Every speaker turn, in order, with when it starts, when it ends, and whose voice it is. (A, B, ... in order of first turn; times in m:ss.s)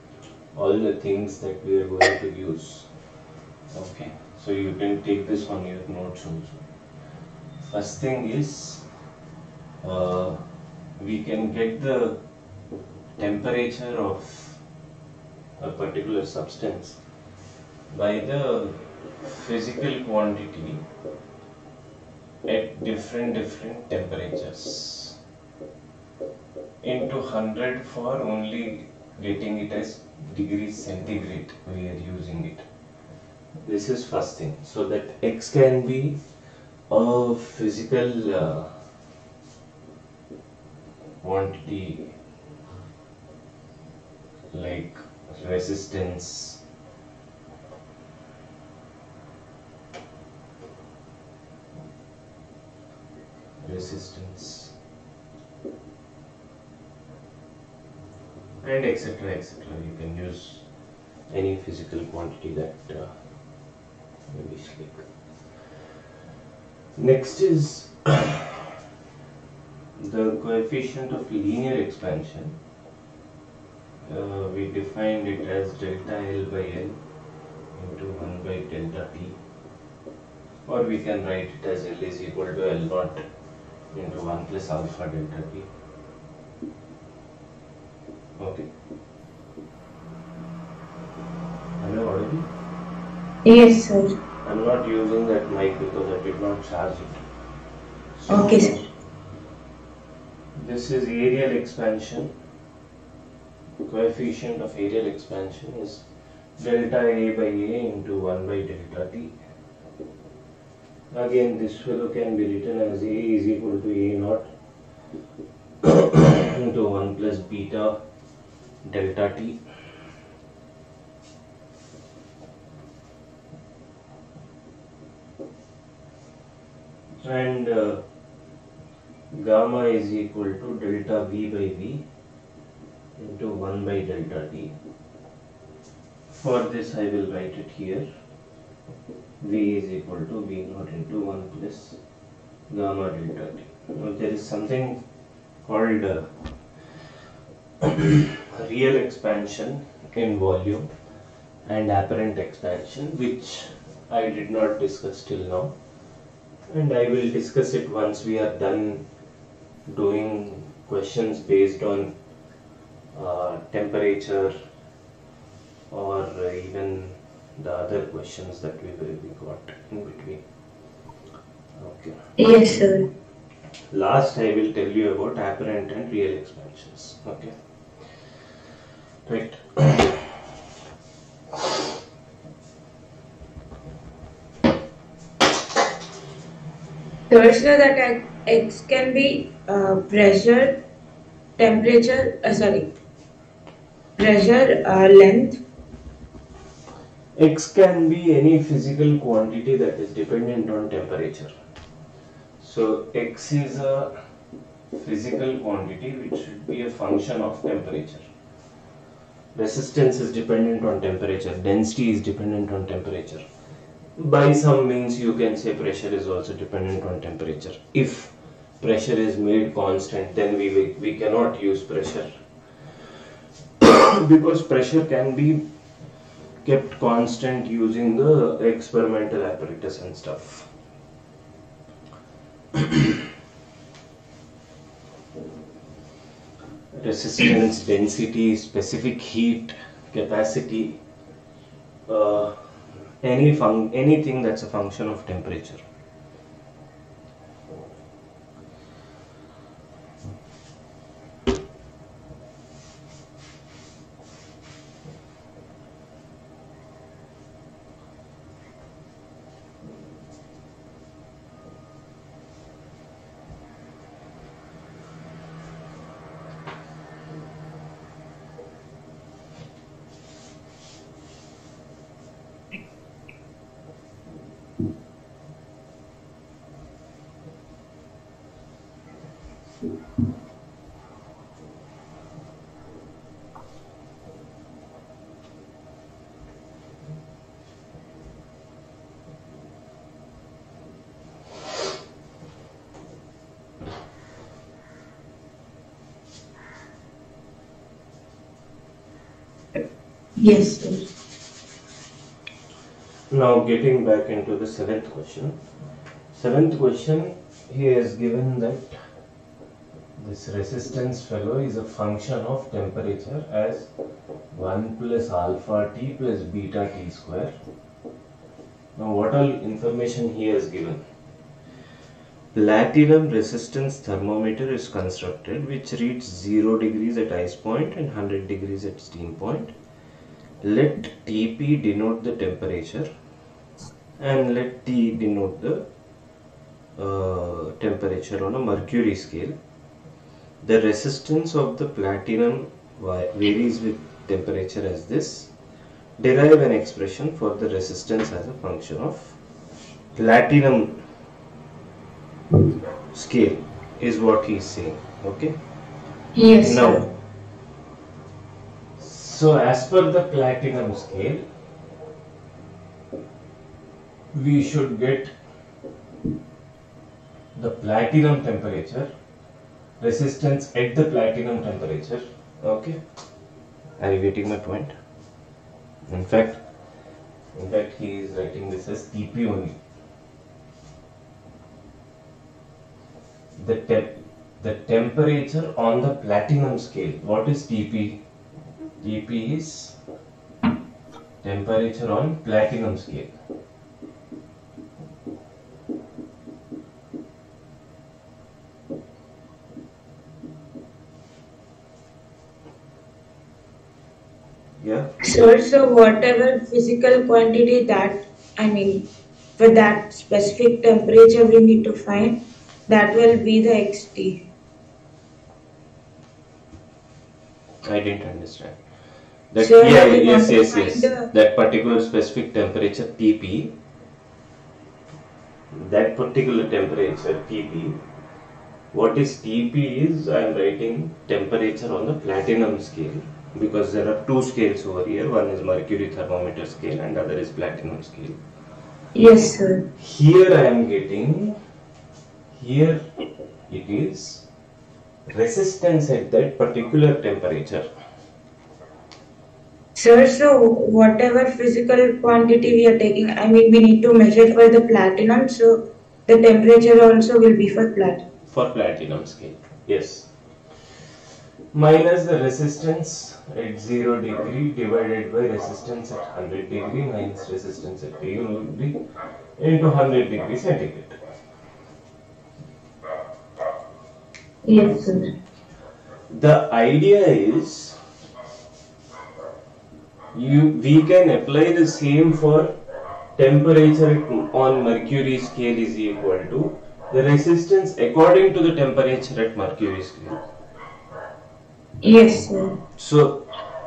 0:00.5-0:02.9 A
0:03.7-0:06.6 A
0:07.6-0:08.8 A
0:09.8-0:10.4 A
0:11.0-0:12.2 A
0:13.2-0:14.6 A
0:15.6-0:17.0 A
0:17.9-0:20.8 A
0:22.5-0:25.2 A
0:26.8-0:32.6 A
0:33.6-0:36.2 A
0:36.9-0:38.7 A
0:41.2-0:42.1 A
0:44.5-0:46.6 A
0:53.6-0:54.7 A
0:58.6-1:00.6 A
1:01.3-1:03.1 A
1:04.3-1:05.0 A
1:07.0-1:08.6 A
1:10.0-1:12.6 A
1:14.1-1:17.0 A
1:17.8-1:19.4 A
1:20.7-1:23.2 A
1:23.9-1:25.7 A
1:28.4-1:28.7 A
1:31.8-1:32.5 A
1:33.4-1:34.1 B
1:34.4-1:37.2 A
1:38.2-1:38.8 A
1:38.3-1:38.8 B
1:40.6-1:42.3 A
1:43.8-1:46.1 A
1:46.6-1:49.3 A
1:51.1-1:54.5 A
1:55.8-1:58.0 A
1:58.8-1:59.6 A
2:07.2-2:08.0 A
2:09.3-2:12.0 A
2:13.2-2:14.8 A
2:16.3-2:18.0 A
2:19.4-2:22.0 A
2:22.7-2:25.0 A
2:25.6-2:26.3 A
2:27.8-2:30.9 A
2:31.6-2:35.7 A
2:36.7-2:39.0 A
2:39.9-2:42.1 A
2:43.1-2:44.5 A
2:45.9-2:50.4 A
2:51.8-2:52.2 A
2:52.4-2:53.1 B
2:53.9-2:57.5 A
2:59.2-3:00.3 A
3:07.3-3:10.8 B
3:11.6-3:12.9 B
3:14.2-3:15.6 B
3:17.4-3:21.5 A
3:22.6-3:24.1 A
3:25.0-3:28.2 A
3:29.5-3:33.4 A
3:34.2-3:42.3 A
3:43.8-3:45.6 A
3:46.6-3:50.7 A
3:56.9-4:01.0 A
4:02.1-4:02.5 A
4:03.2-4:05.8 A
5:00.4-5:01.1 B
5:03.3-5:05.6 A
5:06.3-5:08.9 A
5:10.2-5:13.9 A
5:14.5-5:17.5 A
5:19.0-5:21.0 A
5:22.5-5:29.7 A
5:30.6-5:33.1 A
5:34.2-5:35.8 A
5:37.0-5:39.6 A
5:40.6-5:45.5 A
5:46.2-5:49.4 A
5:50.1-5:51.0 A
5:53.1-5:55.6 A
5:56.3-5:57.1 B
5:56.6-5:57.1 A
5:59.0-6:01.4 A
6:04.3-6:05.3 A
6:07.5-6:09.1 A
6:10.0-6:13.0 A
6:14.0-6:14.9 A
6:16.1-6:16.6 A
6:17.5-6:19.8 A
6:23.6-6:28.2 A
6:29.0-6:30.0 A
6:31.4-6:33.3 A
6:44.8-6:45.1 A
6:45.2-6:49.0 B
6:49.6-6:54.4 B
6:57.8-6:58.8 A
6:59.5-7:03.7 A
6:59.6-7:01.3 B
7:05.7-7:08.0 A
7:08.9-7:18.4 A
7:19.1-7:19.8 B
7:20.0-7:21.6 A
7:22.5-7:23.0 A
7:23.7-7:24.4 A
7:25.3-7:27.8 A
7:29.9-7:38.2 B
7:38.5-7:40.3 A
7:41.7-7:49.0 A
7:49.6-7:51.1 A
7:54.6-7:55.3 B
7:56.3-7:58.0 A
8:00.3-8:02.7 A
8:03.4-8:10.4 A
8:12.0-8:12.8 B
8:13.0-8:13.4 A